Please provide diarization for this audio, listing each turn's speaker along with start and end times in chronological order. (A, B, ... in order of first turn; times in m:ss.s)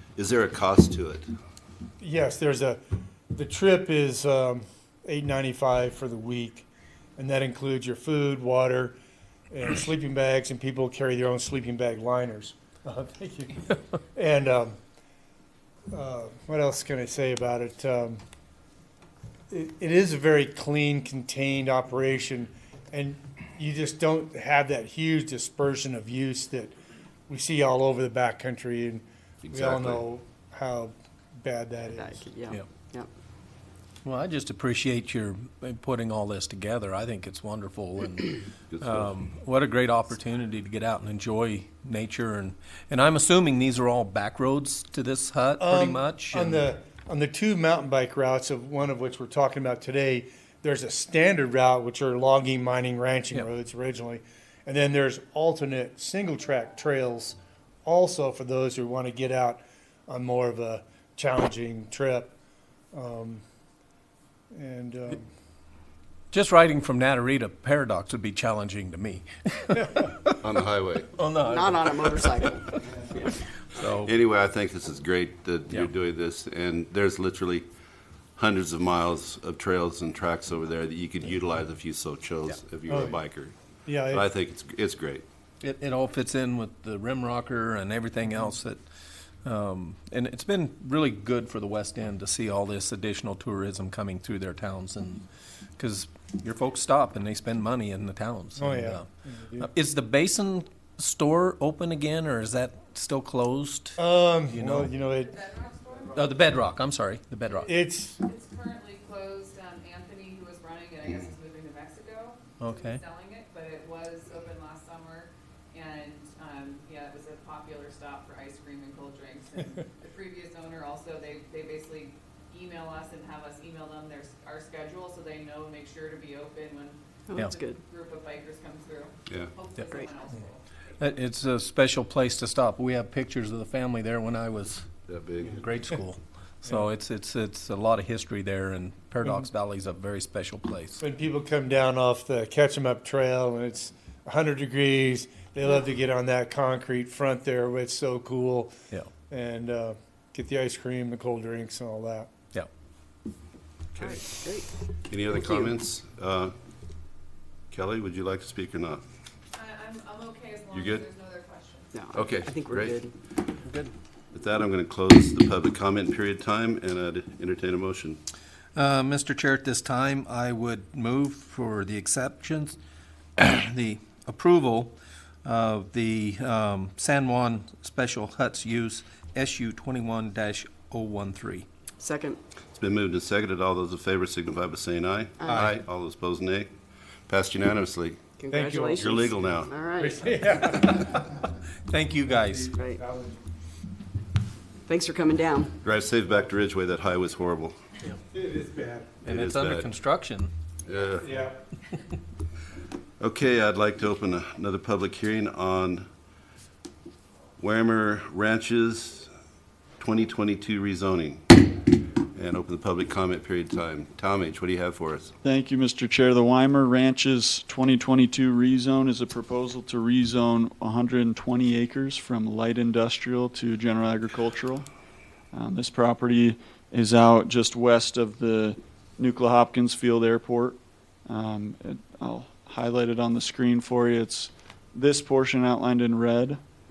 0:00.2-0:01.3 A
0:02.0-0:02.8 B
0:03.3-0:09.0 B
0:09.5-0:14.8 B
0:15.9-0:18.2 B
0:19.5-0:26.7 B
0:27.3-0:32.3 B
0:29.4-0:30.0 A
0:31.9-0:33.1 C
0:34.0-0:46.6 D
0:38.7-0:39.1 A
0:45.6-1:02.3 B
1:02.9-1:03.4 B
1:04.5-1:05.3 B
1:06.3-1:10.4 D
1:10.4-1:11.1 A
1:11.2-1:13.0 D
1:11.5-1:13.4 C
1:13.6-1:14.1 D
1:14.0-1:17.7 A
1:18.4-1:23.5 A
1:22.9-1:23.2 B
1:23.9-1:24.2 B
1:24.1-1:25.2 A
1:25.6-1:28.8 D
1:29.4-1:35.3 D
1:35.8-1:39.1 D
1:38.6-1:39.7 B
1:39.6-1:44.0 D
1:44.0-1:45.3 B
1:44.5-1:44.9 D
1:45.2-1:46.2 E
1:46.1-1:47.7 D
1:47.7-1:48.2 B
1:48.2-2:10.6 E
1:52.6-1:53.0 D
2:07.3-2:07.8 C
2:11.0-2:14.9 D
2:15.1-2:15.8 A
2:15.5-2:21.0 D
2:21.0-2:28.7 B
2:29.3-2:32.3 B
2:33.9-2:34.4 A
2:34.0-2:34.7 C
2:35.1-2:36.5 A
2:35.4-2:35.7 C
2:37.7-2:39.0 A
2:39.5-2:42.0 E
2:40.7-2:41.0 A
2:41.9-2:43.1 C
2:42.1-2:43.0 A
2:43.6-2:43.9 D
2:44.3-2:48.2 A
2:48.8-2:52.8 D
2:53.4-3:01.7 D
3:02.0-3:02.4 C
3:02.7-3:06.7 A
3:07.3-3:08.2 A
3:08.4-3:10.8 C
3:08.5-3:09.3 B
3:08.8-3:09.7 A
3:10.0-3:11.4 B
3:11.9-3:12.8 D
3:12.4-3:13.4 B
3:12.7-3:13.0 C
3:14.8-3:15.8 C
3:15.8-3:17.8 A
3:18.3-3:19.1 B
3:19.2-3:19.9 A
3:19.3-3:20.5 D
3:20.8-3:21.4 A
3:21.2-3:21.6 B
3:23.2-3:26.1 A
3:27.6-3:29.3 A
3:30.0-3:35.3 A
3:35.4-3:44.9 F
3:45.5-3:56.6 F